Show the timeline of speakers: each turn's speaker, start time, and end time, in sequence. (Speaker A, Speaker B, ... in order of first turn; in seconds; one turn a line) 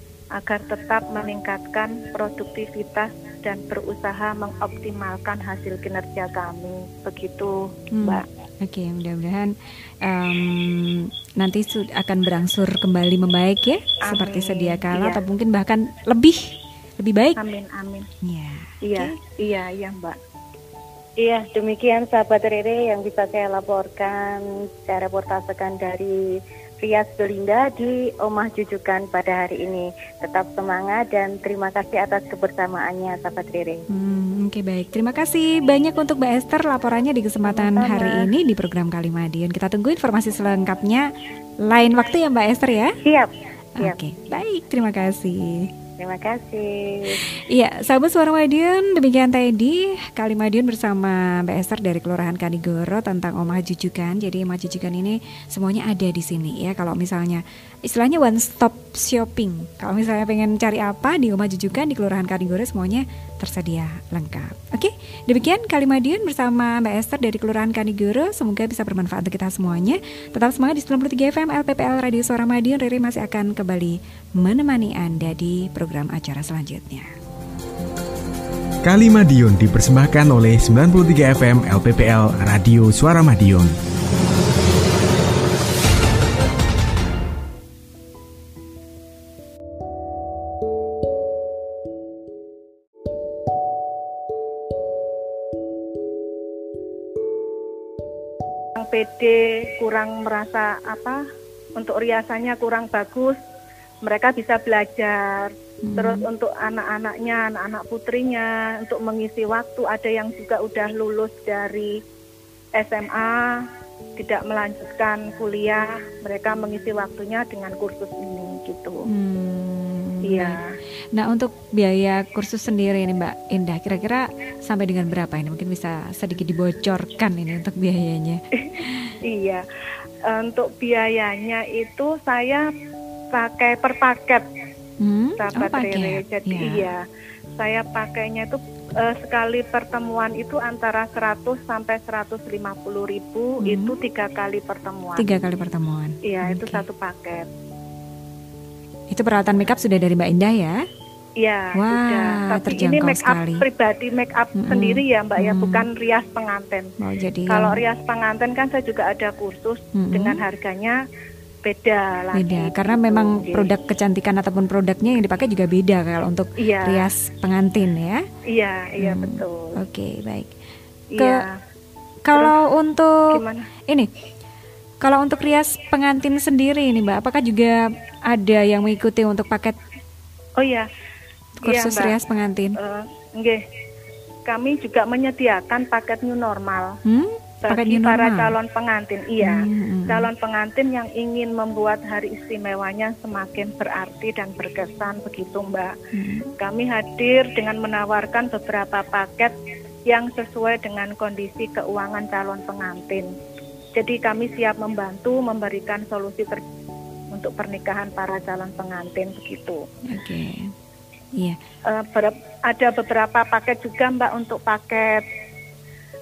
Speaker A: 0.3-8.2
Speaker B: 7.9-17.4
Speaker A: 14.1-15.2
Speaker A: 17.4-18.1
Speaker B: 18.2-19.2
Speaker A: 18.8-20.2
Speaker C: 21.2-26.2
Speaker C: 26.8-33.9
Speaker B: 33.9-41.1
Speaker C: 37.5-38.3
Speaker B: 41.7-43.0
Speaker C: 43.0-44.0
Speaker B: 43.8-45.7
Speaker C: 46.0-47.2
Speaker B: 47.3-77.1
Speaker D: 78.8-83.7
Speaker A: 98.8-101.2
Speaker A: 101.8-103.4
Speaker A: 104.0-112.0
Speaker B: 105.8-106.2
Speaker A: 112.8-113.7
Speaker A: 114.2-119.1
Speaker B: 119.1-120.6
Speaker A: 120.2-120.8
Speaker B: 121.1-129.1
Speaker A: 128.6-129.7
Speaker A: 130.2-132.7
Speaker A: 133.3-134.4
Speaker B: 135.0-136.8
Speaker A: 135.4-137.0
Speaker A: 137.6-145.4
Speaker B: 143.6-144.0
Speaker B: 145.2-146.8
Speaker A: 146.2-147.5
Speaker B: 149.1-150.8
Speaker A: 151.4-156.9
Speaker B: 151.8-153.7
Speaker B: 154.6-155.9
Speaker B: 157.0-157.8
Speaker A: 157.5-161.0
Speaker B: 159.9-160.4
Speaker A: 161.7-163.7
Speaker B: 162.3-168.2
Speaker A: 166.6-167.1
Speaker A: 168.5-169.8
Speaker B: 169.0-170.5
Speaker A: 171.1-171.6
Speaker B: 171.2-171.4
Speaker B: 172.2-173.2
Speaker A: 173.3-173.7
Speaker B: 175.0-179.8
Speaker A: 180.6-180.9
Speaker B: 181.6-182.8
Speaker A: 181.6-182.2
Speaker A: 182.8-183.6
Speaker A: 184.5-186.9
Speaker B: 187.1-188.6
Speaker A: 187.6-195.9
Speaker B: 189.4-190.3
Speaker B: 196.1-196.5
Speaker A: 196.6-199.5
Speaker A: 200.1-203.3
Speaker A: 204.0-206.6
Speaker A: 207.3-209.8
Speaker B: 210.1-210.7
Speaker A: 211.9-215.2